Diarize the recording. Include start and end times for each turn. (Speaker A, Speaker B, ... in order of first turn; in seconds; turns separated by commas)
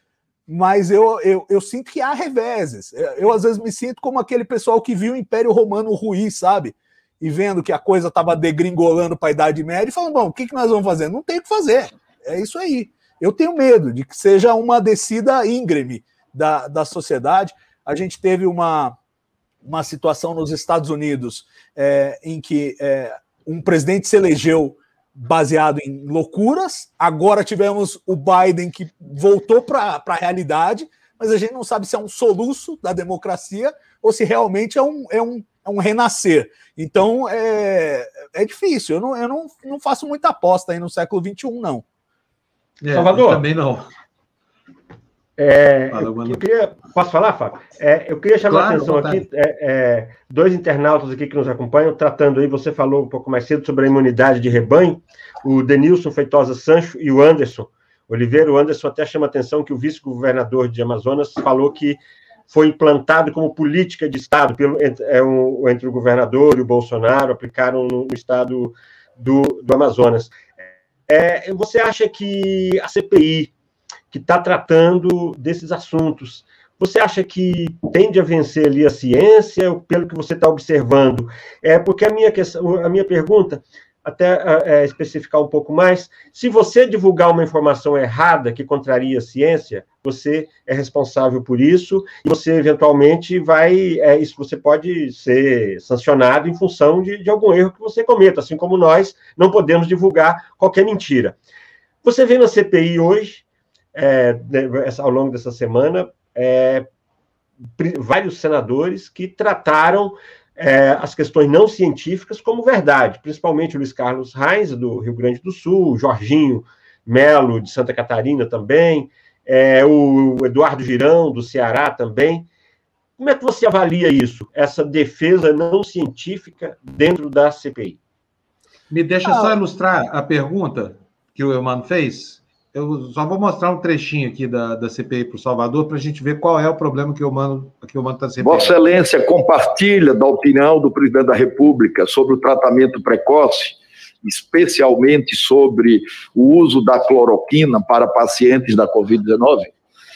Speaker A: 0.5-19.0, Speaker A: 19.6-41.8, Speaker B: 42.8-43.9, Speaker C: 42.9-43.4, Speaker C: 45.4-70.4, Speaker B: 45.9-46.4, Speaker B: 48.5-49.2, Speaker C: 71.1-73.5, Speaker C: 74.1-101.4, Speaker C: 102.0-106.9, Speaker C: 107.8-122.5, Speaker C: 123.2-128.0, Speaker B: 128.9-138.8, Speaker A: 129.2-129.6, Speaker D: 138.4-149.7